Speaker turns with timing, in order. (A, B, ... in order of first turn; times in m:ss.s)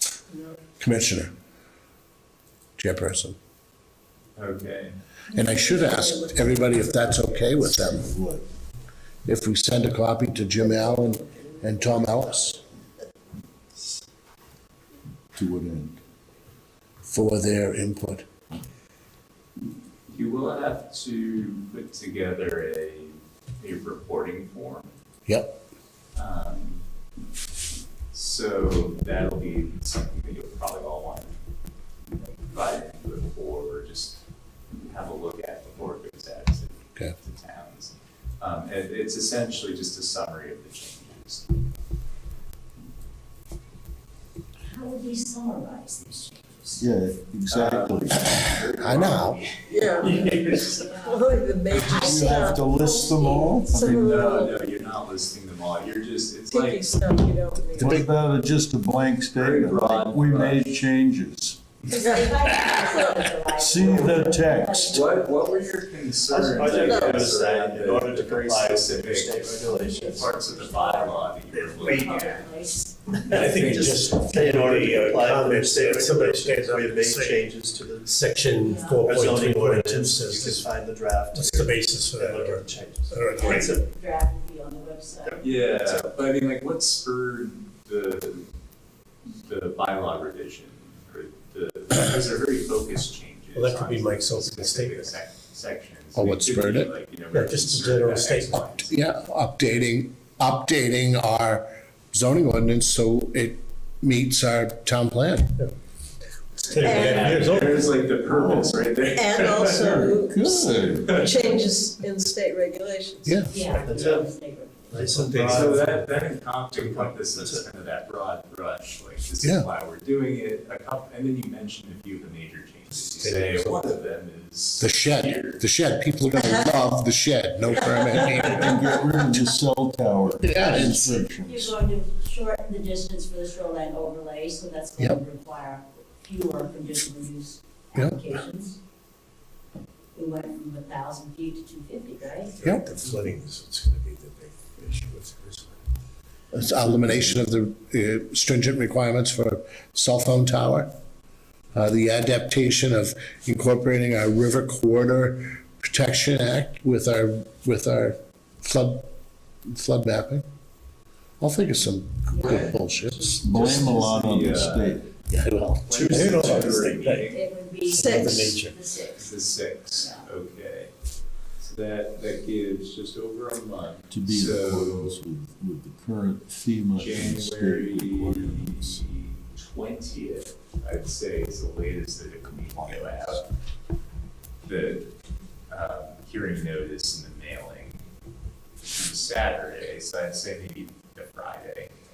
0:00.3-0:00.6 A
0:00.8-0:01.3 B
0:02.8-0:03.4 B
0:04.4-0:05.0 C
0:05.3-0:07.9 A
0:05.3-0:08.2 B
0:07.7-0:08.4 D
0:09.2-0:12.6 B
0:10.6-0:12.6 A
0:13.7-0:14.0 E
0:15.4-0:16.0 D
0:17.0-0:18.3 B
0:20.1-0:25.0 C
0:25.3-0:25.6 B
0:26.1-0:26.8 C
0:28.1-0:31.3 C
0:32.4-0:34.2 C
0:34.8-0:41.6 C
0:44.6-0:46.9 F
0:46.8-0:48.2 D
0:47.5-0:50.9 C
0:48.1-0:49.4 B
0:49.7-0:54.6 A
0:49.7-0:53.6 F
0:51.8-0:54.2 D
0:53.9-0:57.0 C
0:56.5-0:58.0 A
0:57.7-1:01.7 D
0:57.8-0:58.1 B
0:59.3-1:00.8 C
1:01.9-1:05.7 F
1:01.9-1:03.3 A
1:02.5-1:02.8 C
1:03.5-1:05.2 D
1:04.8-1:12.5 C
1:06.3-1:10.3 E
1:09.5-1:13.4 F
1:11.5-1:12.2 E
1:13.1-1:18.2 E
1:13.3-1:14.2 C
1:13.3-1:17.5 G
1:18.0-1:20.7 G
1:18.5-1:19.1 F
1:19.0-1:23.8 E
1:20.3-1:20.6 C
1:21.3-1:23.8 G
1:23.3-1:25.6 F
1:25.2-1:26.1 E
1:25.4-1:28.5 C
1:29.4-1:39.0 C
1:33.5-1:35.2 G
1:36.2-1:36.9 B
1:37.3-1:38.8 G
1:38.9-1:45.5 B
1:46.6-1:47.9 G
1:46.7-1:50.0 C
1:46.8-1:47.3 A
1:48.3-1:48.8 D
1:49.2-1:50.5 A
1:49.6-1:51.4 D
1:51.0-1:51.5 C
1:51.1-1:53.5 A
1:53.2-1:53.6 B
1:53.5-1:55.1 F
1:53.7-1:54.3 E
1:54.9-1:57.6 E
1:55.0-1:56.0 G
1:55.4-2:05.7 C
1:59.4-1:59.7 B
2:03.2-2:03.8 G
2:04.8-2:09.0 B
2:06.4-2:06.7 A
2:07.8-2:08.2 A
2:08.1-2:11.8 D
2:08.4-2:08.8 C
2:10.4-2:11.2 B
2:10.6-2:18.8 F
2:18.0-2:18.2 B
2:20.2-2:22.5 F
2:22.5-2:25.8 G
2:22.6-2:22.9 B
2:26.5-2:30.9 B
2:26.9-2:27.2 G
2:31.7-2:39.1 B
2:39.7-2:40.5 B
2:41.4-2:43.9 B
2:42.3-2:44.0 F
2:42.4-2:42.8 C
2:43.4-2:45.1 D
2:43.5-2:47.5 C
2:45.3-2:46.4 B
2:45.3-2:47.3 G
2:46.7-2:49.3 F
2:47.9-2:48.4 A
2:47.9-2:48.8 G
2:49.2-2:50.9 C
2:50.0-2:50.3 F
2:51.6-2:55.2 C
2:54.1-2:59.1 D
2:57.0-3:03.4 C
3:02.7-3:03.4 D
3:04.6-3:05.1 C
3:05.7-3:08.0 C
3:08.8-3:11.9 C